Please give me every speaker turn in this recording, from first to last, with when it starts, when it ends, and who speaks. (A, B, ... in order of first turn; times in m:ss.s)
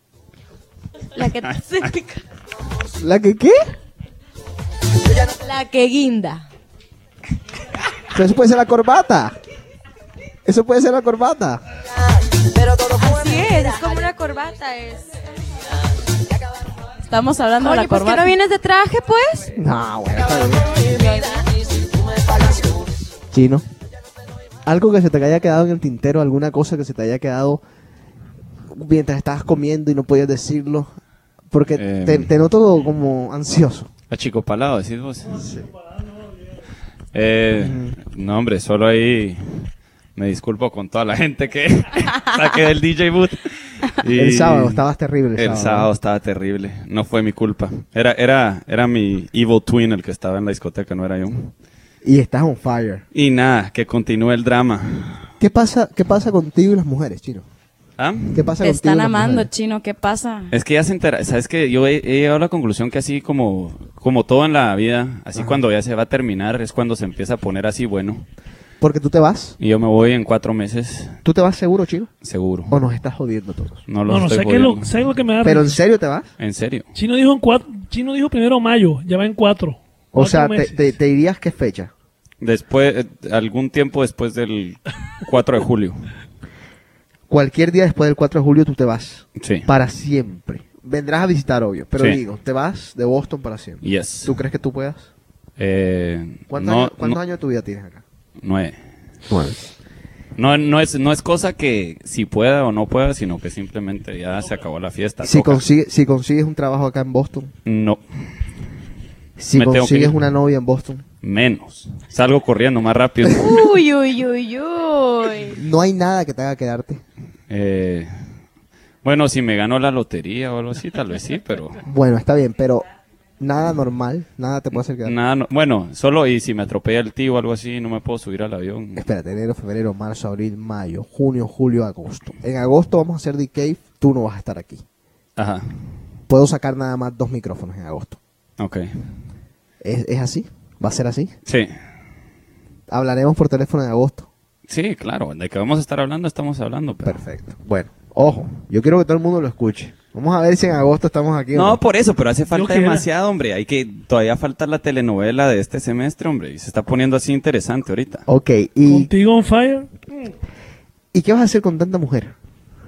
0:01.2-0:02.2 A
0:03.0-0:03.7 B
0:05.1-0:06.5 A
0:08.1-0:09.4 B
0:10.5-0:11.6 B
0:13.0-0:15.2 A
0:17.0-0:18.3 C
0:17.6-0:19.6 A
0:19.6-0:20.7 B
0:20.8-0:21.6 A
0:23.3-0:23.7 B
0:24.7-0:27.6 B
0:28.7-0:30.9 B
0:31.5-0:33.9 B
0:31.8-0:32.3 D
0:34.1-0:35.5 D
0:35.4-0:35.6 B
0:36.0-0:36.3 E
0:37.1-0:44.8 D
0:37.6-0:38.0 B
0:44.2-0:45.9 B
0:45.4-0:51.5 D
0:52.0-0:53.0 B
0:53.1-0:55.3 D
0:55.4-0:57.5 B
0:58.0-0:58.5 D
0:58.3-0:59.5 B
0:58.6-1:00.5 C
1:00.5-1:08.2 D
1:08.8-1:09.6 B
1:09.6-1:11.2 D
1:11.2-1:12.1 B
1:12.2-1:12.8 D
1:12.7-1:13.8 B
1:13.9-1:14.9 D
1:14.1-1:15.8 E
1:15.4-1:16.3 B
1:16.4-1:16.9 D
1:17.0-1:20.9 E
1:20.1-1:21.9 B
1:22.4-1:26.1 D
1:27.3-1:35.1 B
1:29.4-1:29.7 D
1:33.8-1:34.4 D
1:35.6-1:37.2 D
1:36.5-1:38.0 B
1:38.4-1:38.8 D
1:39.3-1:39.6 B
1:40.4-1:45.6 D
1:45.2-1:47.5 B
1:47.7-1:48.5 D
1:49.4-1:51.0 B
1:49.5-1:50.2 D
1:51.2-1:53.7 D
1:53.3-1:55.6 A
1:55.6-1:57.0 B
1:57.5-1:58.1 D
1:59.0-2:01.8 D
2:01.9-2:02.9 B
2:03.4-2:05.2 B
2:04.7-2:09.1 D
2:09.0-2:14.8 B
2:15.4-2:15.7 D
2:16.3-2:18.2 B
2:18.6-2:19.0 D
2:19.8-2:21.3 B
2:21.5-2:21.7 D
2:22.9-2:24.3 B
2:24.7-2:27.2 D
2:27.0-2:31.8 B
2:31.5-2:38.3 D
2:32.5-2:33.1 E
2:38.3-2:39.1 B
2:38.8-2:40.3 E
2:41.1-2:42.3 B